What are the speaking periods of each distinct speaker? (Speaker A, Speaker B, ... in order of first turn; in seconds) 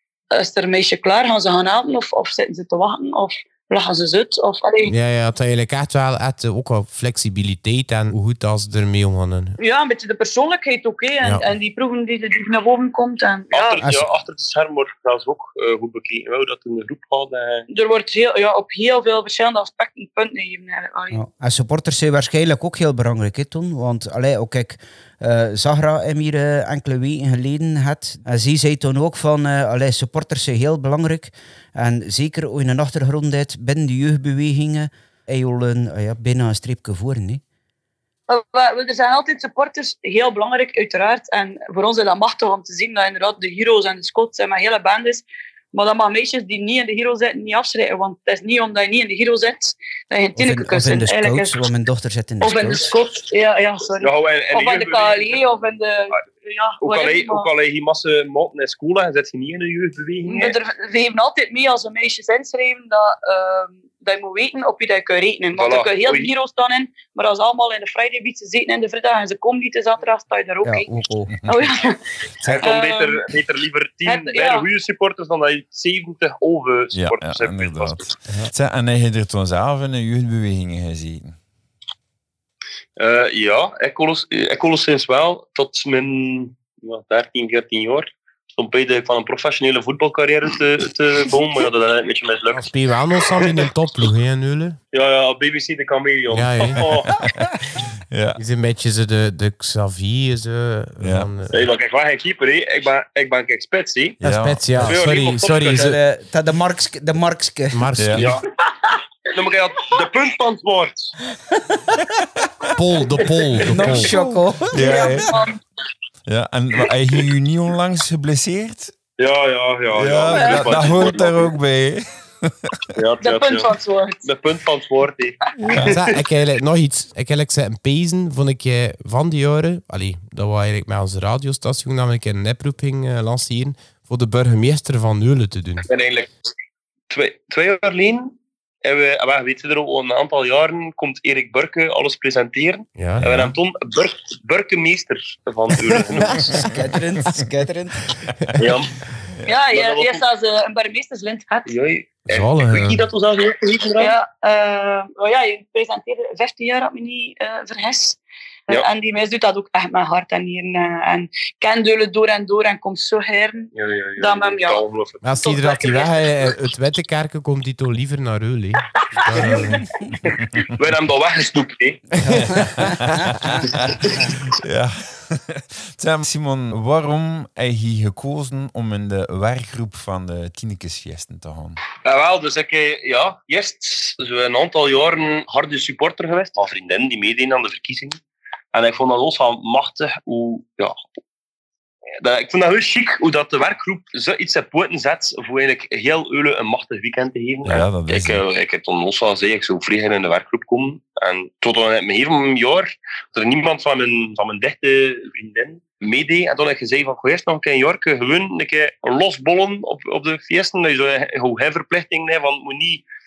Speaker A: 0.3-4.9, 9.6-13.8, 17.7-21.2, 38.3-51.6, 52.4-57.5, 60.2-70.9, 71.4-72.0, 72.5-73.2, 74.0-74.7, 114.7-115.6, 120.3-120.6, 123.2-124.3, 149.4-151.8, 154.0-164.8, 165.4-166.1, 169.3-169.8
Speaker B: 4.8-9.6, 11.2-11.5, 92.5-94.8, 96.3-96.8, 98.4-101.6, 104.2-106.0, 107.7-108.4, 112.8-114.2, 125.8-135.9, 143.0-143.2, 152.3-153.1, 165.2-169.8
Speaker C: 13.5-17.7, 54.0-55.4, 56.8-60.6, 65.5-66.3, 72.4-78.1, 83.0-92.7, 93.3-93.7, 94.9-97.2, 101.5-104.2, 104.8-105.9, 108.2-108.4, 109.3-111.1, 119.2-121.4, 123.0-123.7, 124.2-126.2, 135.8-136.3, 137.1-146.6, 148.6-149.0, 149.7-150.2, 151.7-154.1, 163.7-165.3, 169.3-172.0, 173.7-174.3, 182.0-188.2, 188.7-190.9, 192.2-213.0
Speaker D: 13.8-14.1, 21.1-37.4, 50.4-52.9, 70.6-71.5, 105.7-108.2, 113.7-115.2, 146.2-148.6, 172.2-173.5
Speaker E: 76.9-81.3, 96.8-98.4, 101.0-101.3, 104.2-104.9, 108.0-108.3, 113.8-115.4, 116.2-119.0, 119.9-122.9, 143.2-143.5, 172.5-181.8, 197.6-198.4